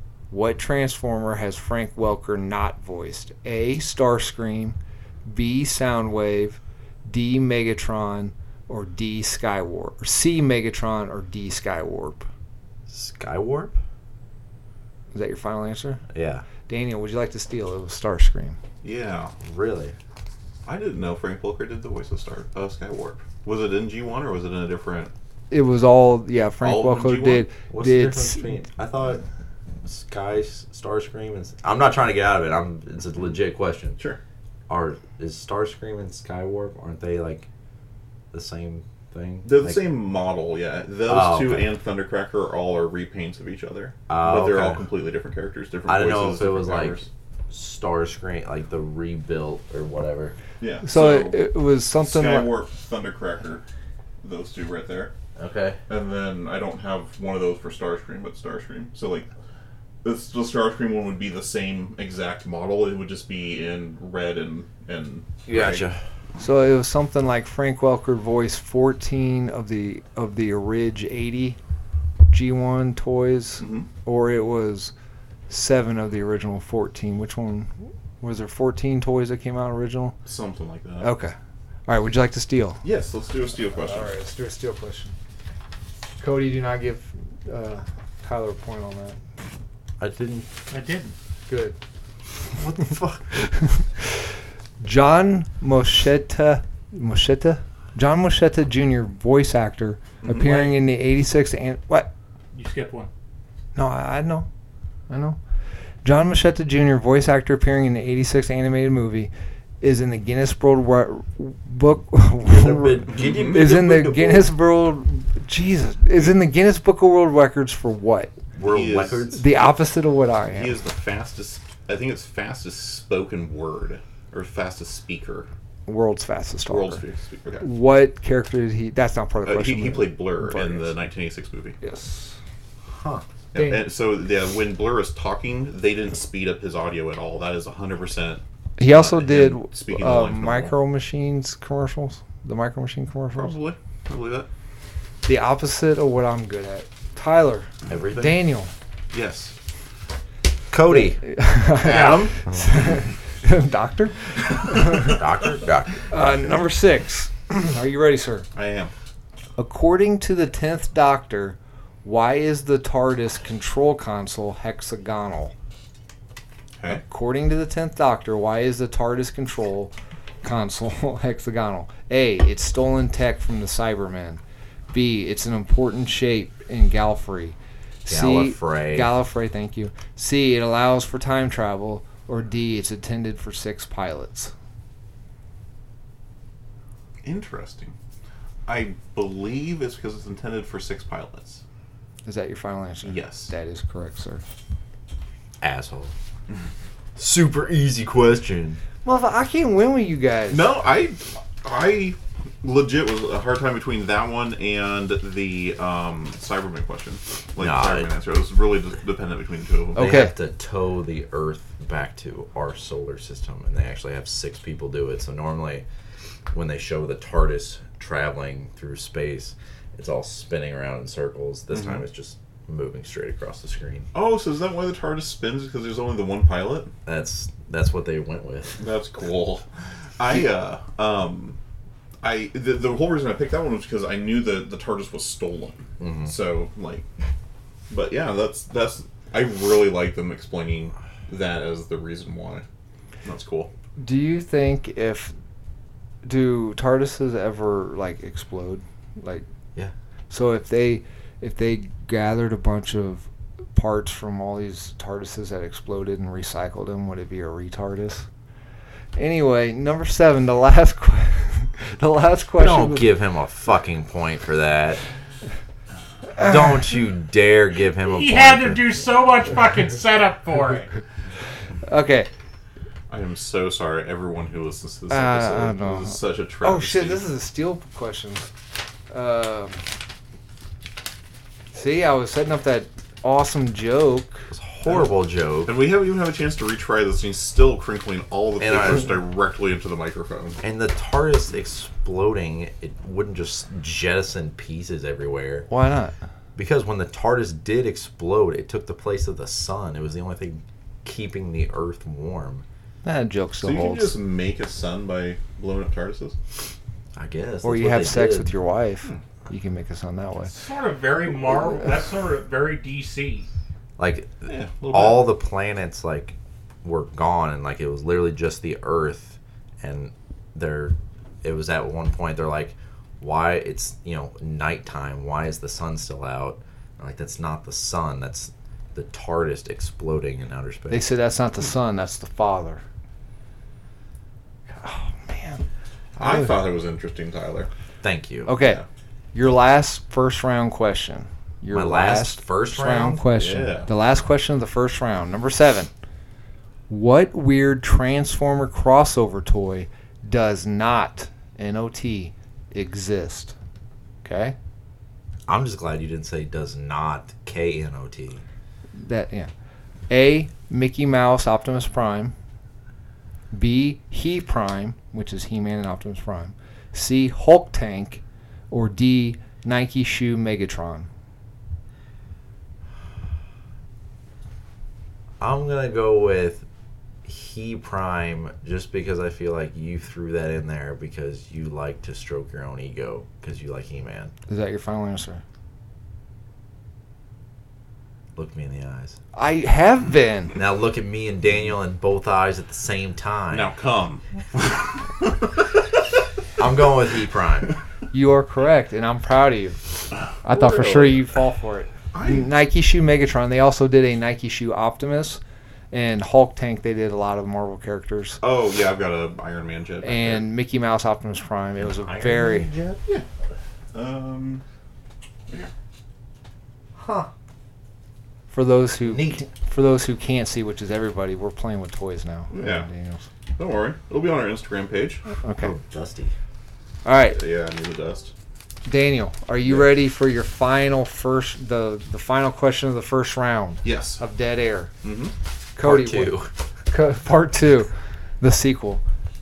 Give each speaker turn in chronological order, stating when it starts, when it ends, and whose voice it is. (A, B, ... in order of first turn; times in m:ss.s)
0:00.3-0:12.3 A
0:12.9-0:13.7 B
0:15.1-0:16.0 A
0:16.1-0:16.4 B
0:16.6-0:18.6 A
0:18.8-0:19.3 C
0:19.4-0:19.9 B
0:20.6-0:25.1 C
0:25.5-0:28.6 A
0:26.6-0:27.5 C
0:27.7-0:29.2 B
0:29.8-0:34.0 B
0:34.7-0:37.5 B
0:38.3-0:39.9 B
0:39.4-0:47.1 C
0:41.0-0:41.7 B
0:44.1-0:44.8 B
0:45.8-0:50.4 B
0:50.6-0:51.4 C
0:50.8-0:52.5 A
0:52.0-0:53.6 C
0:54.2-0:55.1 C
0:55.4-0:55.8 B
0:55.9-0:59.3 C
1:00.0-1:05.8 C
1:05.5-1:06.0 B
1:06.4-1:11.6 A
1:12.3-1:14.9 A
1:13.6-1:13.9 C
1:15.5-1:20.2 A
1:20.2-1:21.1 C
1:21.0-1:21.3 A
1:21.9-1:22.8 A
1:22.8-1:24.1 C
1:23.7-1:25.2 A
1:26.2-1:29.2 A
1:30.0-1:30.5 B
1:30.7-1:31.1 D
1:31.5-1:31.8 A
1:32.5-1:33.3 B
1:33.3-1:42.1 A
1:40.2-1:40.7 C
1:42.5-1:43.1 D
1:43.7-1:44.5 A
1:45.1-1:45.4 A
1:46.0-1:49.3 A
1:49.8-1:58.3 A
1:52.4-1:54.5 B
1:53.1-1:53.6 C
1:58.6-1:59.4 B
1:58.6-1:59.4 C
1:59.3-2:00.8 A
2:00.5-2:05.5 C
2:05.8-2:07.0 A
2:06.7-2:07.7 C
2:07.6-2:10.9 A
2:09.4-2:11.8 C
2:11.8-2:12.4 A
2:12.9-2:13.2 B
2:13.5-2:20.7 C
2:13.5-2:13.9 A
2:18.8-2:23.6 A
2:23.4-2:24.5 C
2:25.2-2:28.7 A
2:27.9-2:28.4 B
2:29.1-2:29.5 C
2:30.7-2:31.2 B
2:30.9-2:35.2 A
2:31.8-2:32.4 C
2:31.8-2:32.3 D
2:35.0-2:36.2 B
2:36.1-2:38.5 A
2:38.5-2:38.9 C
2:39.6-2:45.5 A
2:46.9-2:54.4 A
2:54.9-3:04.5 A
2:58.1-2:59.1 B
3:07.2-3:07.9 C
3:08.6-3:11.6 C
3:12.2-3:14.4 A
3:13.0-3:13.5 C
3:15.6-3:16.1 B
3:17.2-3:18.8 B
3:19.0-3:20.6 A
3:20.5-3:30.0 C
3:27.6-3:28.1 B
3:29.9-3:30.3 A
3:29.9-3:35.8 B
3:36.5-3:44.1 B
3:41.7-3:42.0 C
3:44.1-3:46.9 C
3:47.0-3:48.8 B
3:48.8-3:49.6 C
3:50.2-3:51.6 C
3:52.2-3:57.1 C
3:56.0-3:56.3 B
3:57.9-4:02.6 C
4:03.2-4:03.7 C
4:04.0-4:05.3 A
4:06.2-4:09.4 A
4:10.3-4:18.2 A
4:19.2-4:23.1 A
4:22.6-4:25.0 B
4:26.4-4:26.6 A
4:26.4-4:28.9 B
4:28.0-4:30.9 D
4:31.8-4:32.3 A
4:33.1-4:37.2 C
4:35.1-4:38.5 A
4:39.1-4:39.8 A
4:41.7-4:44.5 A
4:44.5-4:45.8 B
4:44.8-4:45.1 C
4:45.6-4:50.6 C
4:48.6-4:49.2 B
4:50.6-4:55.7 B
4:55.7-4:56.2 A
4:56.6-5:02.6 B
5:03.0-5:04.1 A
5:03.6-5:06.4 C
5:07.2-5:08.5 B
5:07.6-5:10.5 A
5:10.5-5:13.5 D
5:14.0-5:31.0 B
5:14.4-5:15.3 C
5:30.9-5:32.8 A
5:34.8-5:35.6 A
5:36.2-5:37.7 C
5:36.2-5:36.5 A
5:38.0-5:38.5 B
5:38.4-5:38.8 A
5:38.6-5:38.8 C
5:39.3-5:45.9 A
5:41.7-5:43.3 B
5:43.3-5:43.9 C
5:46.9-5:53.5 A
5:54.2-5:54.6 A
5:55.5-5:58.4 B
5:59.0-5:59.5 A
6:00.1-6:02.3 A
6:03.5-6:11.1 A
6:15.4-6:16.6 B
6:17.2-6:24.3 B
6:24.5-6:25.4 A
6:28.4-6:29.2 B
6:29.3-6:30.6 A
6:30.6-6:33.7 B
6:33.5-6:35.5 C
6:36.6-6:37.7 B
6:38.1-6:39.8 A
6:40.4-6:45.4 A
6:40.5-6:41.2 C
6:42.1-6:42.5 C
6:45.9-6:48.4 A
6:48.4-6:50.4 C
6:50.0-6:52.7 A
6:52.0-6:52.8 B
6:52.4-6:53.2 C
6:53.9-6:54.6 C
6:57.0-6:57.3 B
6:58.5-7:03.2 A
6:59.1-6:59.4 B
7:02.5-7:02.9 C
7:03.6-7:05.2 C
7:05.3-7:05.7 A
7:05.6-7:06.3 B
7:07.0-7:07.4 A
7:07.3-7:08.3 C
7:08.8-7:14.9 A
7:13.8-7:14.2 C
7:15.0-7:15.3 C
7:15.8-7:19.0 A
7:15.8-7:16.5 B